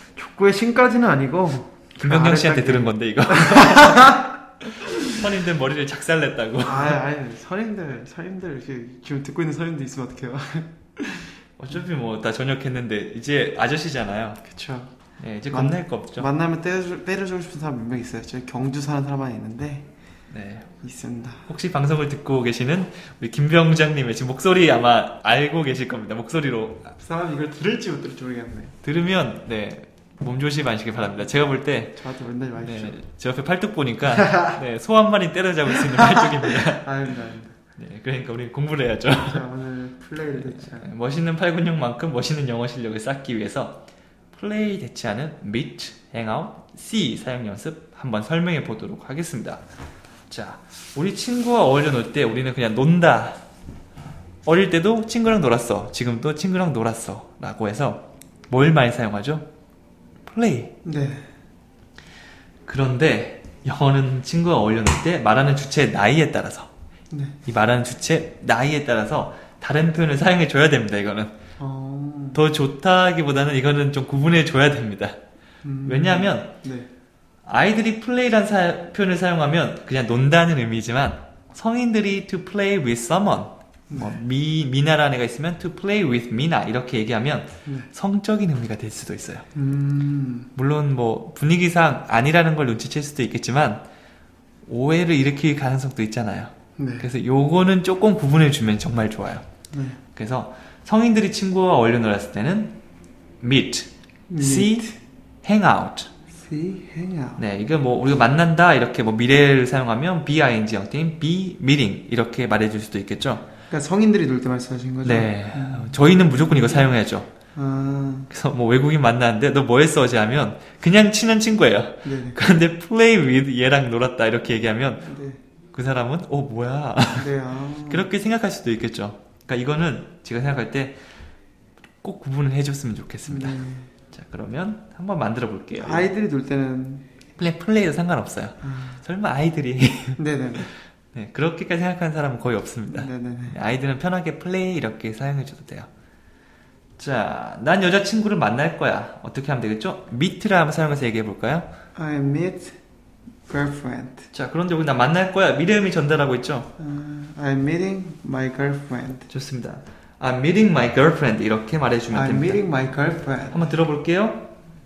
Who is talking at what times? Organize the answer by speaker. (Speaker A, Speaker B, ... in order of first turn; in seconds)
Speaker A: 0.2-4.3, 6.6-11.3, 14.5-14.9, 15.5-19.9, 20.8-21.5, 27.0-28.8, 32.0-33.0, 34.1-34.6, 36.0-37.5, 39.2-40.9, 60.8-61.3, 67.1-67.4, 71.6-72.4, 75.6-76.9, 83.9-84.2, 89.5-90.5, 96.8-97.1, 99.7-100.0, 104.3-105.0, 106.4-107.4, 113.7-116.9, 117.5-118.3, 122.0-122.4, 125.1-125.4, 127.2-128.1, 133.3-133.9, 135.8-137.1, 138.6-139.0, 140.2-140.7, 142.9-143.6, 151.9-152.8, 153.5-154.3, 156.8-159.3, 162.1-163.7
Speaker B: 2.0-4.2, 5.0-7.0, 11.6-14.4, 15.2-16.3, 20.3-20.7, 21.5-26.9, 28.8-32.0, 32.6-36.9, 37.8-39.5, 40.3-49.6, 50.3-53.4, 54.5-59.5, 60.3-60.7, 62.7-66.7, 67.5-71.3, 72.3-75.2, 75.8-76.5, 77.5-89.5, 90.5-93.8, 94.7-99.4, 100.1-102.8, 103.4-104.9, 105.5-106.1, 107.4-113.5, 115.0-117.3, 118.3-125.1, 125.7-127.3, 127.9-131.0, 132.0-133.6, 134.1-136.1, 137.4-145.9, 147.0-151.7, 154.3-156.7, 159.3-162.6, 163.5-164.5